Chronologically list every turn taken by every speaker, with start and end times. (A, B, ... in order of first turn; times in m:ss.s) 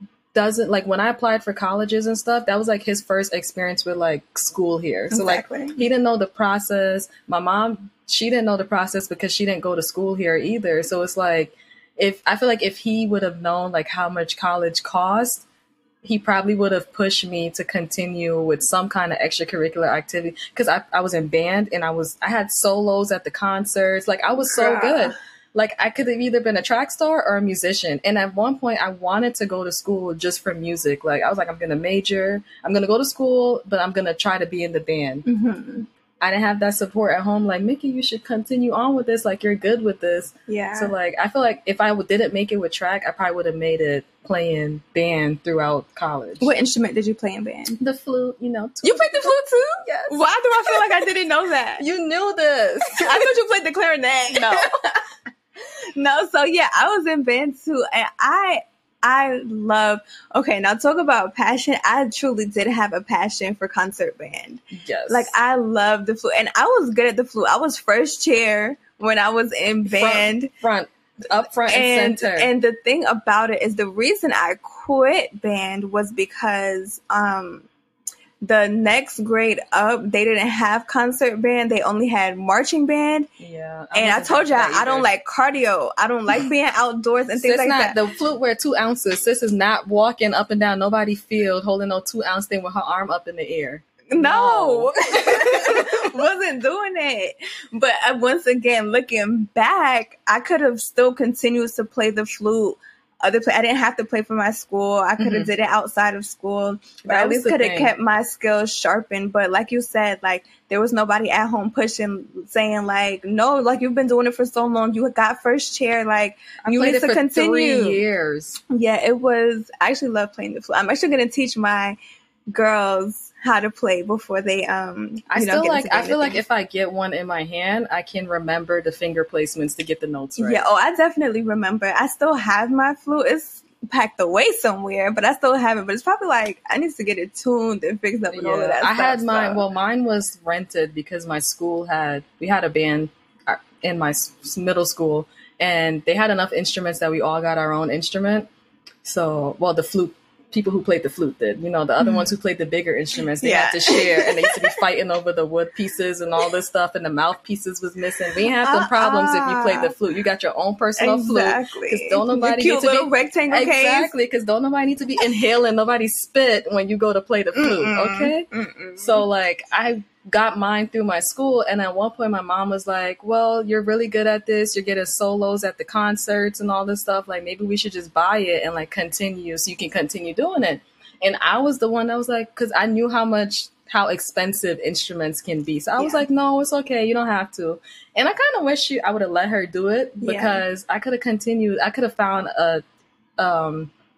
0:00.3-0:15.4 A
0:05.1-0:05.8 B
0:16.0-0:35.2 A
0:24.4-0:25.2 B
0:35.2-0:35.9 B
0:36.2-0:46.5 A
0:40.5-0:40.9 B
0:46.4-0:47.8 B
0:47.8-0:50.9 A
0:48.8-0:51.9 B
0:51.8-0:53.3 A
0:53.0-0:55.0 B
0:54.3-0:54.6 A
0:56.0-1:10.5 B
1:04.7-1:05.3 A
1:09.9-1:12.5 A
1:11.7-1:17.7 B
1:18.4-1:23.3 B
1:23.4-1:25.1 A
1:23.9-1:28.0 B
1:27.4-1:36.0 A
1:34.1-1:58.0 B
1:45.2-1:45.5 A
1:47.0-1:47.9 A
1:56.6-1:58.6 A
1:58.7-2:02.0 B
2:02.5-2:06.4 B
2:05.3-2:10.6 A
2:10.4-2:19.6 B
2:18.3-2:28.5 A
2:29.0-2:48.5 A
2:32.0-2:32.3 B
2:33.4-2:34.7 B
2:38.6-2:39.9 B
2:41.0-2:44.1 B
2:47.6-2:49.3 B
2:49.0-3:12.8 A
3:06.0-3:06.2 B
3:10.2-3:10.6 B
3:13.4-3:13.9 A